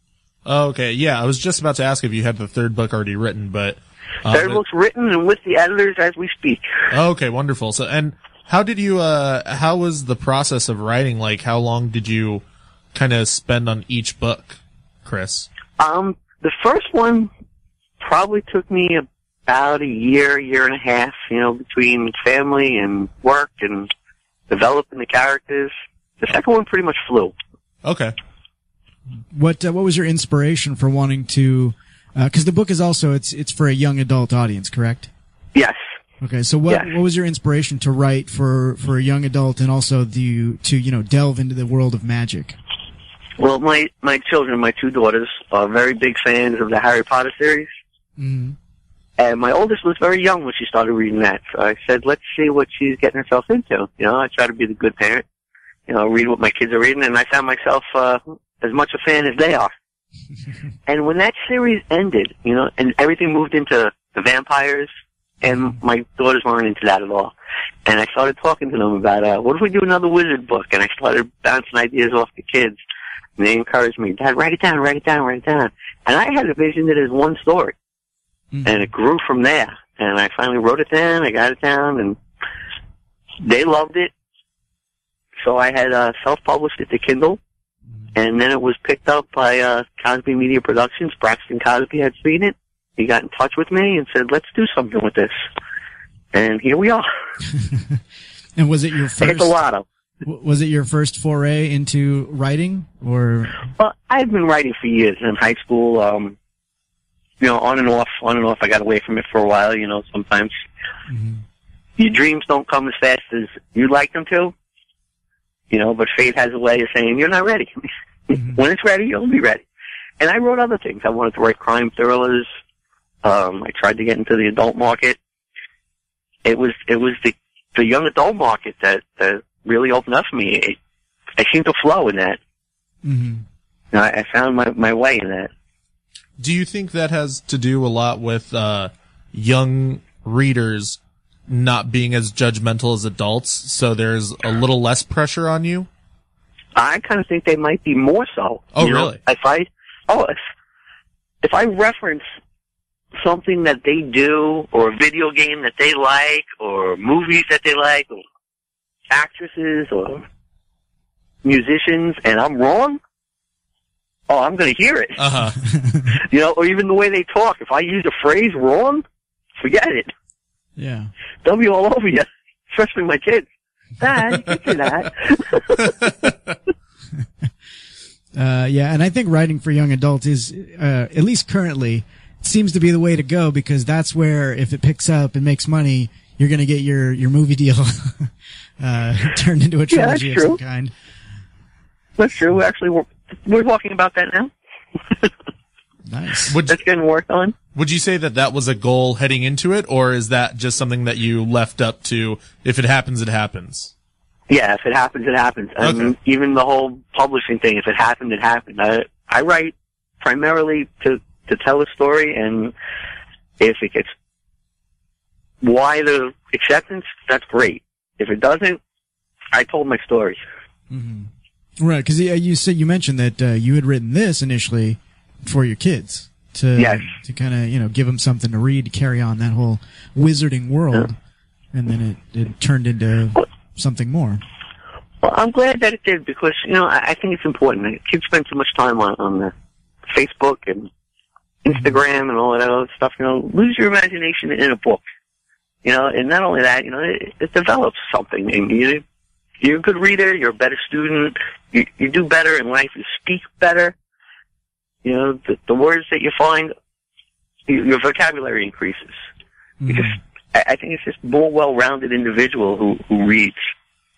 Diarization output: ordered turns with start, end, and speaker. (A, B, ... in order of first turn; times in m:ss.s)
0:00.4-0:04.6 A
0:04.3-0:06.7 B
0:06.9-0:12.4 A
0:12.9-0:15.5 A
0:15.8-0:17.3 B
0:18.0-0:23.9 B
0:24.5-0:27.3 B
0:27.8-0:28.1 A
0:29.3-0:35.1 C
0:35.5-0:35.8 B
0:36.2-0:42.6 C
0:43.4-0:47.7 B
0:48.2-0:48.6 C
0:49.2-0:55.2 B
0:55.9-0:59.7 B
1:00.9-1:04.9 B
1:05.4-1:07.3 B
1:07.8-1:12.8 B
1:13.4-1:17.7 B
1:18.5-1:18.9 C
1:18.6-1:22.2 B
1:23.4-1:24.1 B
1:25.4-1:27.4 B
1:28.1-1:35.3 B
1:36.3-1:37.1 B
1:37.5-1:38.0 C
1:38.6-1:39.5 C
1:39.2-1:39.8 B
1:40.2-1:43.6 C
1:43.8-1:46.4 B
1:47.4-1:50.5 B
1:51.1-1:51.4 C
1:52.0-1:54.5 B
1:55.7-1:57.7 B
1:58.3-1:59.6 B
1:58.3-1:58.6 C
2:00.2-2:02.5 B
2:03.2-2:05.2 B
2:06.4-2:10.8 B
2:11.4-2:12.4 B
2:13.0-2:13.4 C
2:13.9-2:15.5 B
2:16.4-2:25.9 A
2:26.8-2:30.4 B
2:28.7-2:29.2 A
2:31.4-2:32.2 B
2:33.2-2:38.2 B
2:39.1-2:40.2 B
2:41.4-2:43.0 B
2:44.3-2:45.2 B
2:45.2-2:45.6 A
2:45.7-2:46.0 C
2:46.1-2:49.0 B
2:49.6-2:50.1 B
2:50.8-2:51.1 C
2:51.4-2:53.4 B
2:54.0-2:55.9 B
2:58.3-3:10.9 C
3:09.9-3:10.6 B
3:12.2-3:14.5 B
3:16.1-3:16.6 C
3:16.5-3:16.8 A
3:16.6-3:17.5 B
3:17.7-3:23.9 A
3:24.5-3:32.7 B
3:25.8-3:26.1 A
3:33.6-3:34.1 B
3:35.6-3:38.8 B
3:39.5-3:40.4 B
3:40.9-3:51.2 C
3:46.8-3:47.1 B
3:51.7-3:54.4 C
3:55.2-3:59.5 B
4:00.1-4:00.9 B
4:01.6-4:05.0 B
4:01.7-4:02.0 C
4:05.8-4:09.0 B
4:09.6-4:13.9 B
4:15.0-4:16.7 B
4:17.7-4:19.2 B
4:19.8-4:20.2 C
4:19.9-4:23.6 B